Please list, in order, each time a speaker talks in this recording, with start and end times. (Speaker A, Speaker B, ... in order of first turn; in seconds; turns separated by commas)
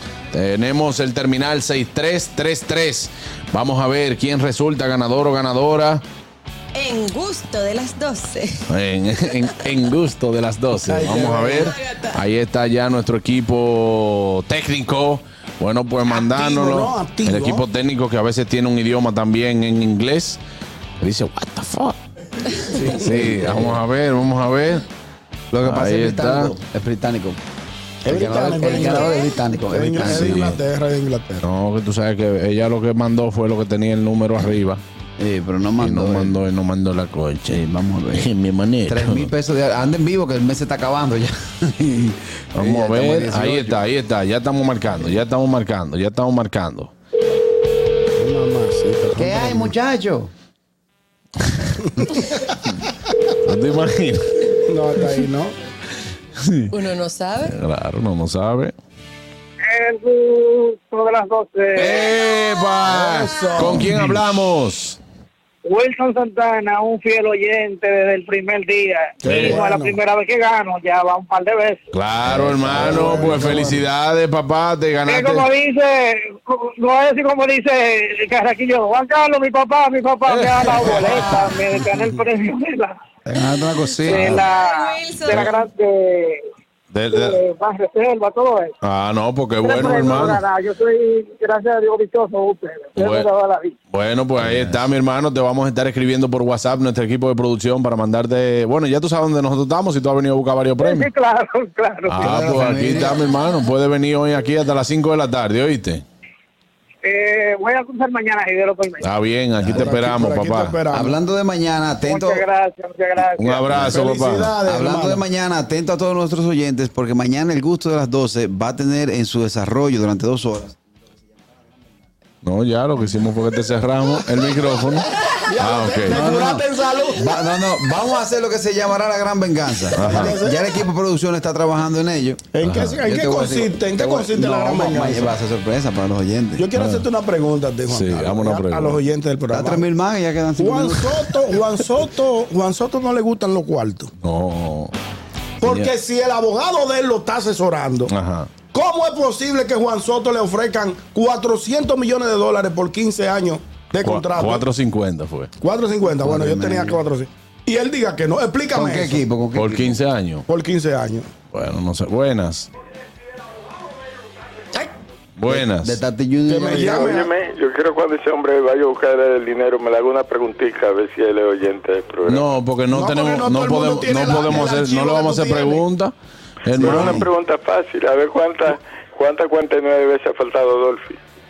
Speaker A: 0.3-6.0, Speaker B: 6.7-8.6, Speaker A: 8.7-20.4, Speaker C: 10.9-11.6, Speaker D: 11.0-11.5, Speaker B: 11.7-12.1, Speaker C: 16.3-17.7, Speaker A: 21.0-22.0, Speaker D: 22.7-23.8, Speaker A: 22.8-24.8, Speaker D: 25.5-27.4, Speaker A: 25.6-26.5, Speaker C: 28.1-29.1, Speaker D: 28.1-30.5, Speaker B: 28.7-29.3, Speaker C: 29.7-31.5, Speaker A: 30.1-30.6, Speaker A: 31.4-34.8, Speaker D: 35.2-36.4, Speaker A: 35.8-39.3, Speaker D: 37.5-38.3, Speaker D: 38.9-43.8, Speaker A: 42.6-46.9, Speaker C: 48.2-49.7, Speaker D: 49.1-50.3, Speaker A: 51.4-51.8, Speaker A: 53.5-54.5, Speaker C: 54.7-55.5, Speaker A: 56.4-56.7, Speaker B: 56.7-57.5, Speaker A: 57.4-58.7, Speaker E: 59.7-62.2, Speaker A: 61.8-65.0, Speaker C: 62.8-63.9, Speaker E: 65.7-71.8, Speaker C: 69.2-70.0, Speaker A: 69.3-69.6, Speaker A: 71.9-75.5, Speaker D: 72.4-73.8, Speaker C: 72.7-73.8, Speaker E: 75.1-83.0, Speaker A: 80.3-81.8, Speaker D: 83.2-84.5, Speaker E: 84.1-86.5, Speaker B: 84.1-85.4, Speaker A: 86.9-87.4, Speaker E: 87.1-88.7, Speaker A: 88.8-90.4, Speaker E: 89.6-93.8, Speaker A: 93.0-93.3, Speaker A: 93.9-101.1, Speaker E: 100.8-102.4, Speaker A: 102.1-106.0, Speaker D: 102.2-103.3, Speaker E: 107.0-109.0, Speaker A: 109.0-110.8, Speaker D: 109.6-110.0, Speaker C: 109.7-111.2, Speaker D: 110.9-112.4, Speaker E: 112.1-113.8, Speaker A: 113.4-114.6, Speaker C: 113.7-115.2, Speaker D: 114.6-120.8, Speaker A: 122.4-126.3, Speaker C: 125.2-127.4, Speaker D: 126.1-132.5, Speaker A: 129.9-130.4, Speaker C: 130.0-130.7, Speaker C: 132.5-135.3, Speaker A: 132.6-133.0, Speaker D: 133.0-136.7, Speaker C: 136.6-139.8, Speaker A: 136.8-137.1, Speaker A: 137.9-139.0, Speaker D: 139.5-141.2, Speaker C: 140.6-144.1, Speaker A: 144.2-144.9, Speaker C: 145.6-148.1, Speaker A: 145.6-145.9, Speaker A: 148.1-148.6, Speaker C: 148.7-154.7, Speaker A: 154.0-155.5, Speaker C: 155.6-159.2, Speaker D: 156.2-157.0, Speaker D: 158.7-160.0, Speaker A: 159.6-160.5, Speaker C: 160.5-161.3, Speaker A: 161.5-162.7, Speaker A: 165.4-166.0, Speaker D: 165.5-167.3, Speaker C: 166.5-167.3, Speaker F: 166.8-172.4, Speaker A: 172.3-176.1, Speaker C: 172.9-175.8, Speaker A: 176.7-177.2, Speaker D: 176.7-177.3, Speaker F: 176.8-181.2